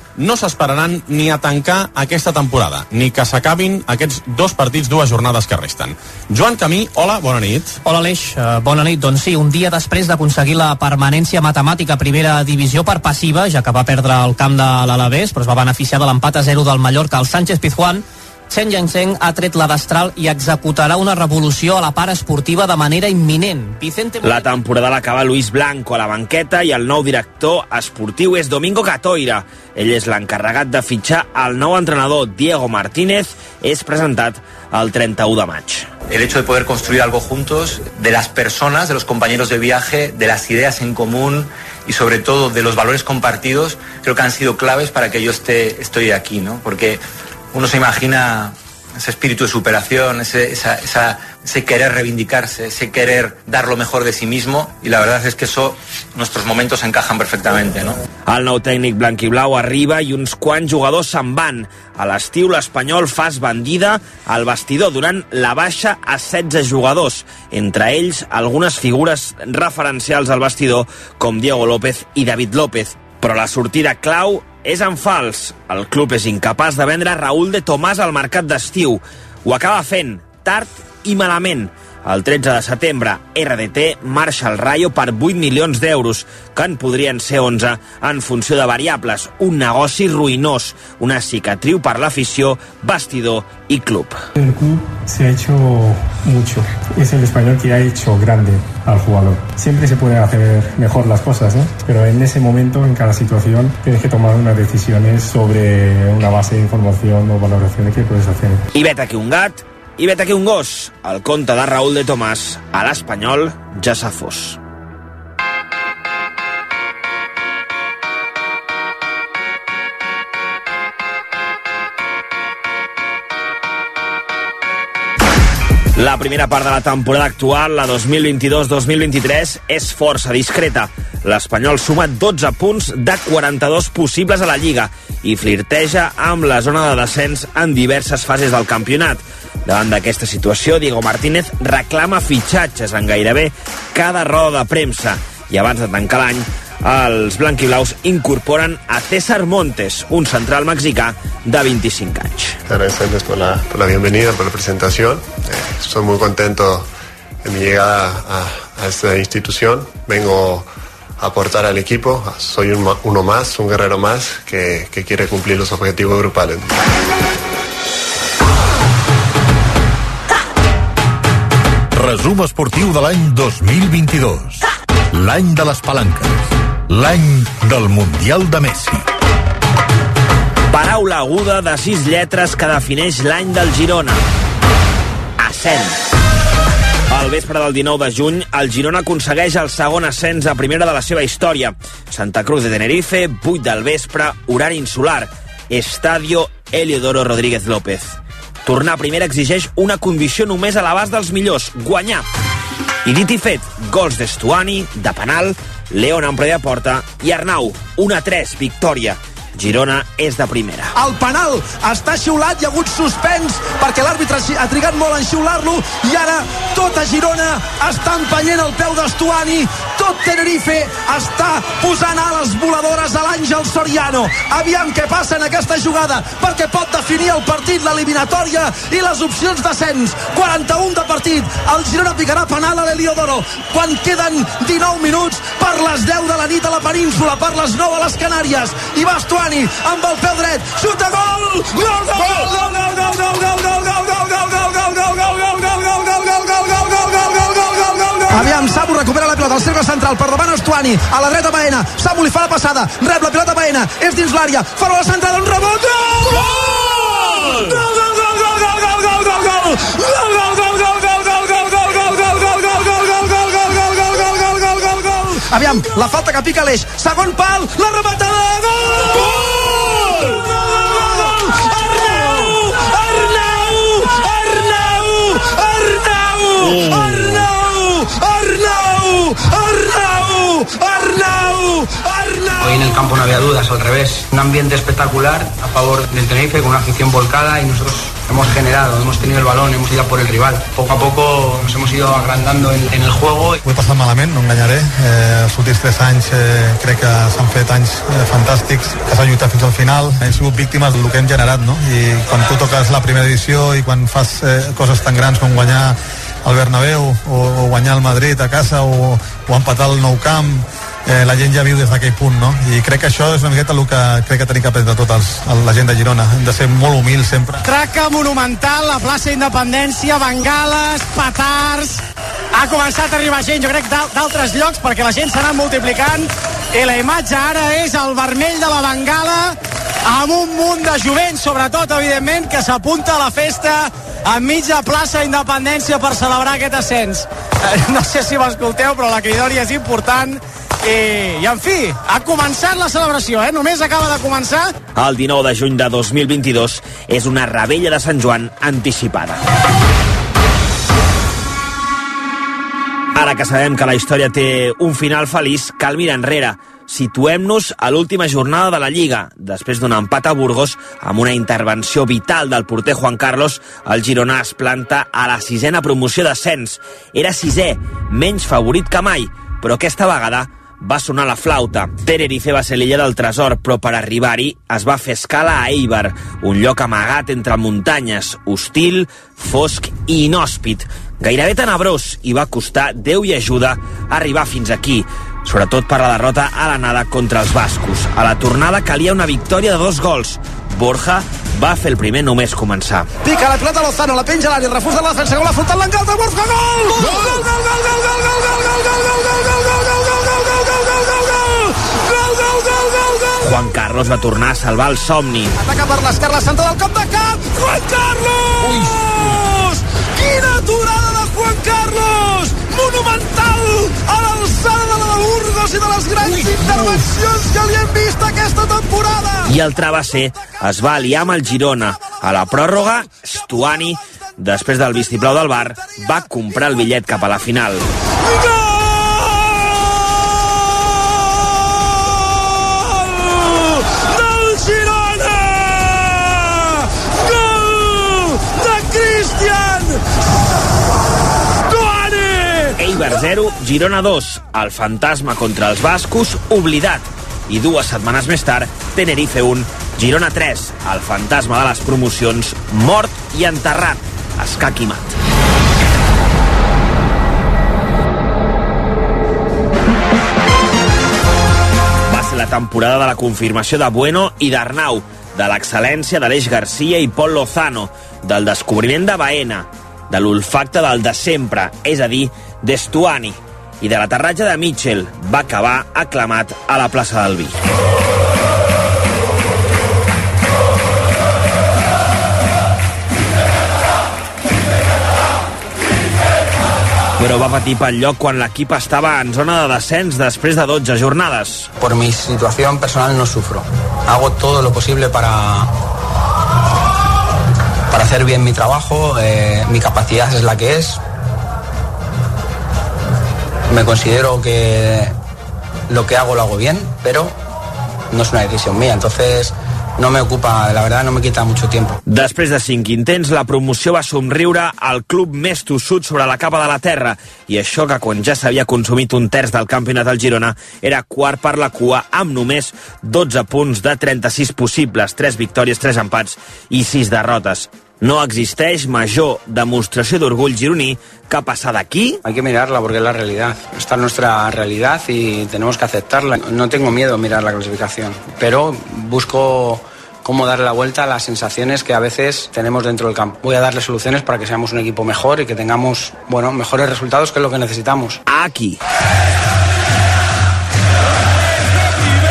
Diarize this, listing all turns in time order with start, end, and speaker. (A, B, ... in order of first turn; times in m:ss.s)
0:00.2-0:07.8 A
0:07.8-0:24.4 B
0:24.2-0:35.9 C
0:36.1-0:47.0 D
0:47.5-0:58.0 D
0:58.3-1:34.2 C
1:34.4-1:48.6 E
1:48.7-1:54.6 C
2:06.0-2:32.6 C
2:32.7-2:36.9 F
2:37.4-2:40.7 F
2:41.2-2:46.7 F
2:51.9-2:59.0 G
3:00.7-3:04.2 C
3:05.4-3:06.0 C
3:07.1-3:22.2 C
3:23.0-3:30.9 C
3:30.9-4:42.8 H
4:42.6-4:53.6 I
4:53.6-5:17.6 J
5:17.6-5:22.0 K
5:22.5-5:44.7 K
5:45.0-5:49.4 C
5:53.1-6:33.1 C
6:33.2-6:43.4 H
6:43.4-6:45.5 C
6:45.6-6:59.5 H
6:59.4-7:07.8 C
7:08.2-7:09.3 H
7:13.9-7:15.1 H
7:18.8-7:19.8 E
7:21.7-7:22.6 E
7:22.8-7:35.1 C
7:42.1-7:57.6 C
8:07.2-8:11.7 C
8:11.8-8:15.7 I
8:17.9-8:21.0 I
8:23.7-8:25.1 I
8:25.9-8:27.4 I
8:28.1-8:32.0 I
8:32.1-8:52.2 C
8:52.2-9:08.2 I
9:08.3-9:08.8 C